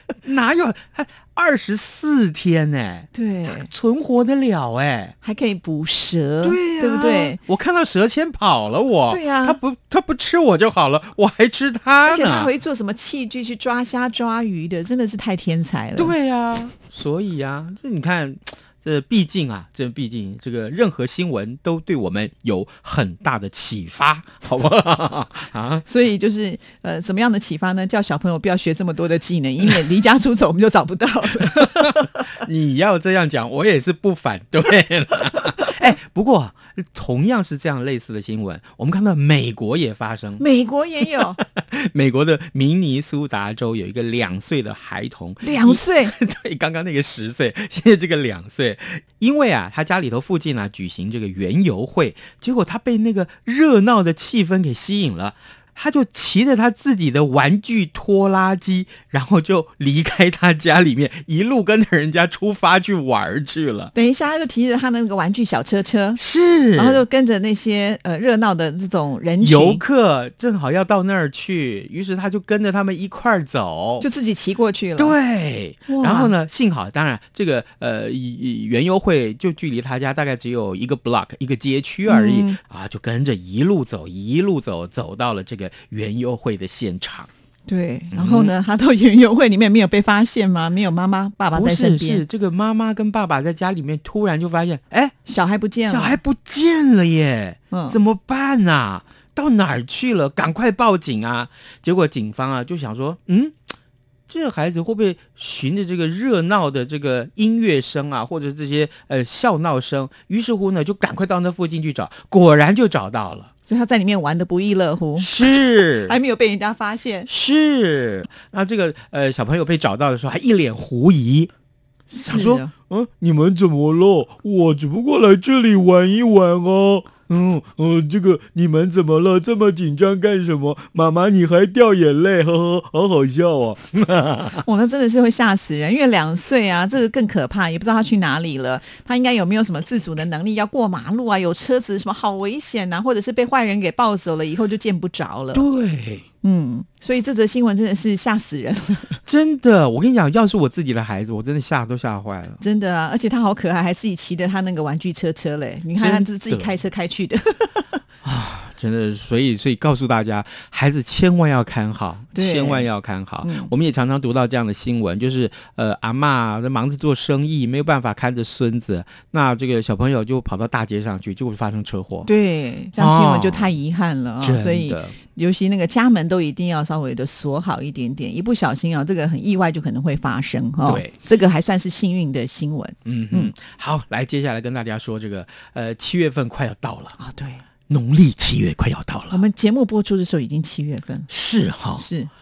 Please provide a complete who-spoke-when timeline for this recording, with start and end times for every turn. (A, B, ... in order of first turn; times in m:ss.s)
0:00.2-0:05.1 A
0:03.1-0:03.7 B
0:05.2-0:07.4 B
0:06.4-0:12.5 A
0:09.1-0:09.6 B
0:12.0-0:16.1 B
0:16.0-0:25.8 A
0:25.9-0:32.0 B
0:31.4-0:40.4 A
0:40.4-0:41.4 B
0:41.2-1:03.9 A
0:45.4-0:46.1 B
1:03.9-1:06.2 B
1:06.2-1:07.0 A
1:06.7-1:09.8 B
1:09.4-1:14.0 A
1:14.0-1:15.2 B
1:15.0-1:27.3 A
1:15.9-1:16.3 B
1:22.0-1:22.6 B
1:27.7-1:32.2 B
1:28.1-1:28.5 A
1:31.5-1:35.1 A
1:35.2-1:36.2 B
1:35.8-1:43.6 A
1:37.7-1:38.0 B
1:44.3-1:53.5 A
1:53.7-1:57.3 B
1:55.2-1:56.2 A
1:57.3-2:01.5 A
2:02.1-2:02.7 B
2:02.2-2:14.6 A
2:14.6-2:25.6 B
2:25.5-2:26.2 A
2:26.4-2:29.2 B
2:29.2-2:32.6 A
2:32.6-2:38.0 B
2:36.0-2:36.7 A
2:38.2-2:52.3 A
2:42.3-2:42.9 B
2:43.4-2:43.7 B
2:52.2-3:03.5 B
2:53.0-2:53.8 A
2:54.4-2:55.1 A
3:00.8-3:01.2 A
3:03.0-3:07.2 A
3:07.2-3:07.6 B
3:07.9-3:09.4 A
3:09.3-3:11.3 B
3:11.3-3:12.1 A
3:11.9-3:12.3 B